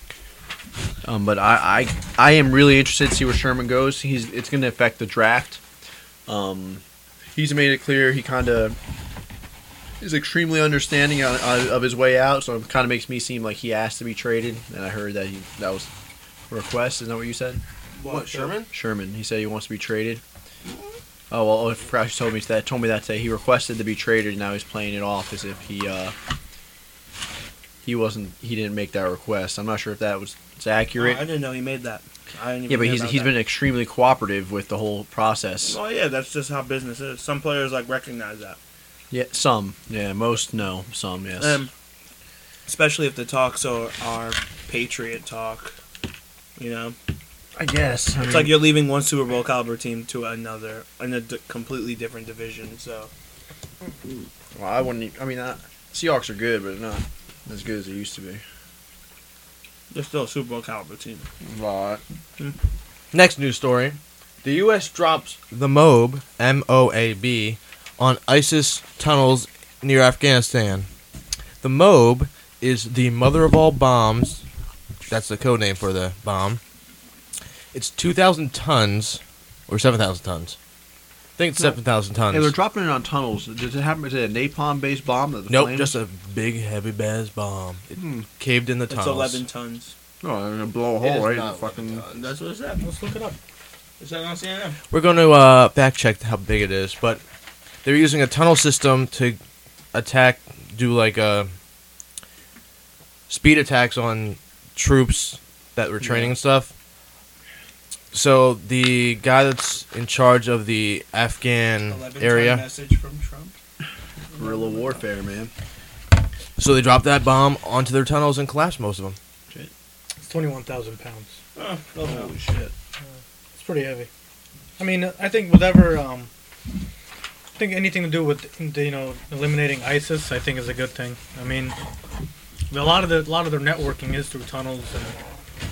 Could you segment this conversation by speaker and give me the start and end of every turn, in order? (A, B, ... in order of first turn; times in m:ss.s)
0:01.0-0:05.6 A
0:06.3-0:06.8 A
0:07.3-0:08.8 A
0:10.0-0:15.9 A
0:16.5-0:17.6 A
0:18.0-0:18.6 B
0:18.0-0:18.7 C
0:18.7-0:20.2 A
0:21.3-0:26.1 A
0:27.8-0:31.3 A
0:30.9-0:33.4 B
0:32.7-0:35.8 A
0:35.6-0:38.6 B
0:39.1-0:41.6 A
0:41.4-0:41.7 B
0:42.6-0:45.7 B
0:46.6-0:47.0 B
0:47.6-0:48.7 A
0:48.2-0:53.1 B
0:54.5-0:58.4 A
0:59.9-1:01.3 B
1:01.4-1:02.0 A
1:03.1-1:10.9 C
1:11.6-1:14.4 C
1:15.1-1:16.6 C
1:17.7-1:20.6 C
1:21.4-1:22.5 C
1:22.3-1:26.0 A
1:25.5-1:29.4 C
1:28.0-1:28.3 A
1:28.9-1:29.9 B
1:30.2-1:32.0 A
1:31.0-1:32.3 C
1:32.1-1:32.8 B
1:32.8-1:33.4 D
1:34.0-1:34.8 B
1:34.9-1:37.2 C
1:37.8-1:39.4 C
1:39.9-1:41.5 C
1:43.3-1:46.7 C
1:46.0-1:46.3 A
1:48.1-1:52.6 C
1:51.9-1:53.5 B
1:54.3-1:55.5 A
1:54.4-1:55.0 B
1:56.6-1:59.2 C
2:00.2-2:01.4 D
2:01.6-2:02.4 B
2:02.0-2:02.7 A
2:03.5-2:04.1 D
2:04.8-2:06.3 D
2:07.6-2:11.8 D
2:12.7-2:15.2 D